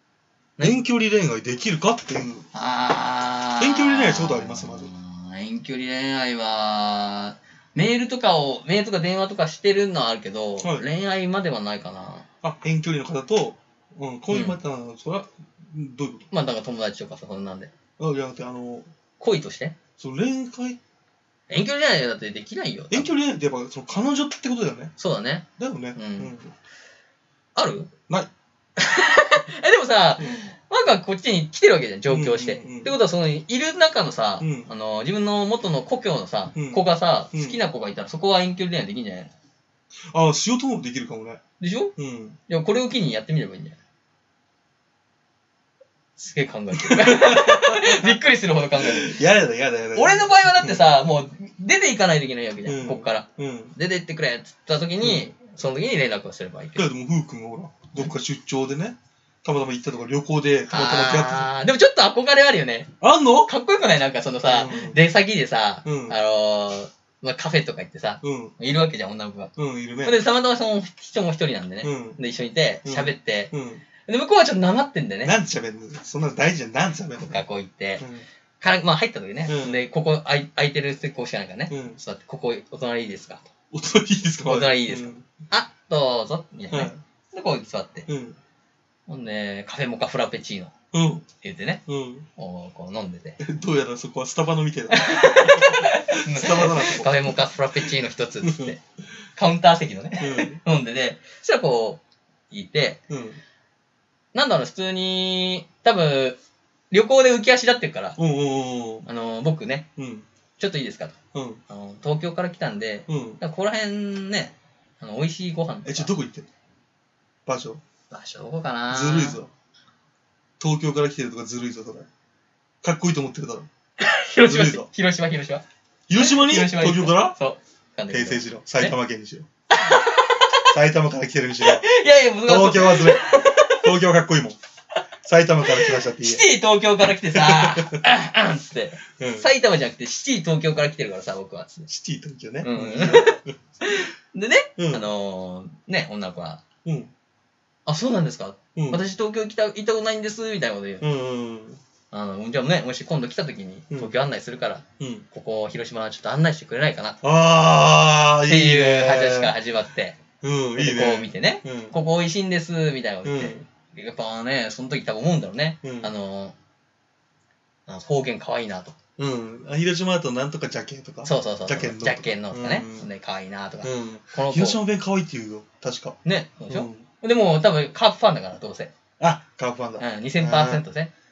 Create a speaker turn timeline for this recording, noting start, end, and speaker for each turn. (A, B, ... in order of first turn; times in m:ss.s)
0:00.6-0:02.5 A
0:02.5-0:12.3 B
0:03.6-0:04.9 A
0:10.6-0:10.8 A
0:12.4-0:16.2 A
0:14.3-0:14.6 B
0:16.3-0:17.7 B
0:18.0-0:18.9 A
0:19.2-0:19.8 B
0:20.0-0:20.8 A
0:21.5-0:23.1 B
0:22.9-0:24.9 A
0:25.0-0:26.3 B
0:25.6-0:26.5 A
0:27.5-0:27.9 B
0:28.8-0:39.3 B
0:30.2-0:30.5 A
0:32.1-0:33.0 A
0:34.4-0:34.7 A
0:36.5-0:37.6 A
0:40.1-0:41.4 A
0:41.6-0:41.9 B
0:42.0-0:42.4 A
0:42.5-0:43.8 B
0:46.2-0:49.2 B
0:46.8-0:51.0 A
0:49.9-0:56.9 B
0:52.6-0:53.7 A
0:55.0-0:55.3 A
0:56.7-1:01.5 A
1:00.7-1:13.5 B
1:03.0-1:03.5 A
1:04.4-1:05.0 A
1:05.8-1:06.2 A
1:08.2-1:08.6 A
1:09.6-1:10.2 A
1:11.8-1:12.2 A
1:12.8-1:13.8 A
1:14.0-1:15.4 B
1:15.2-1:17.4 A
1:17.2-1:18.1 B
1:18.0-1:18.2 A
1:18.6-1:23.5 B
1:19.4-1:19.8 A
1:21.7-1:22.0 A
1:23.7-1:25.2 A
1:24.4-1:28.1 B
1:26.7-1:27.0 A
1:28.1-1:28.4 A
1:29.1-1:30.7 B
1:30.9-1:31.2 A
1:31.4-1:31.8 B
1:31.9-1:32.3 A
1:32.4-1:33.4 B
1:33.4-1:38.8 A
1:34.9-1:38.8 B
1:39.4-1:43.0 B
1:40.2-1:40.6 A
1:43.1-1:43.4 A
1:44.3-1:46.4 B
1:46.9-1:48.2 B
1:48.2-1:49.1 A
1:49.0-1:49.9 B
1:50.0-1:50.2 A
1:50.6-1:51.1 B
1:51.3-1:51.6 A
1:51.7-1:56.1 B
1:53.1-1:53.4 A
1:55.8-1:56.5 A
1:57.4-1:57.8 A
1:58.1-1:59.4 B
1:58.9-1:59.5 A
2:00.6-2:02.1 A
2:02.8-2:03.7 A
2:04.0-2:05.6 B
2:04.4-2:04.9 A
2:06.1-2:07.4 A
2:06.2-2:09.0 B
2:08.1-2:09.5 A
2:09.7-2:10.8 B
2:10.7-2:11.8 A
2:11.6-2:13.9 B
2:12.4-2:14.6 A
2:15.2-2:16.5 A
2:15.6-2:21.9 B
2:17.1-2:18.0 A
2:19.2-2:19.5 A
2:21.9-2:23.6 A
2:22.6-2:26.6 B
2:24.8-2:25.1 A
2:26.8-2:27.1 A
2:27.8-2:31.1 B
2:28.8-2:29.0 A
2:31.0-2:31.8 A
2:32.1-2:37.2 B
2:35.0-2:35.2 A
2:37.2-2:39.6 A
2:38.5-2:40.2 B
2:40.4-2:42.0 A
2:40.8-2:46.6 B
2:43.2-2:43.7 A
2:45.8-2:46.1 A
2:47.9-2:49.0 B
2:49.2-2:53.1 A
2:51.2-2:54.8 B
2:53.8-2:56.2 A
2:56.2-2:58.9 B
2:56.7-2:57.0 A
2:59.2-3:00.8 A
3:00.0-3:01.1 B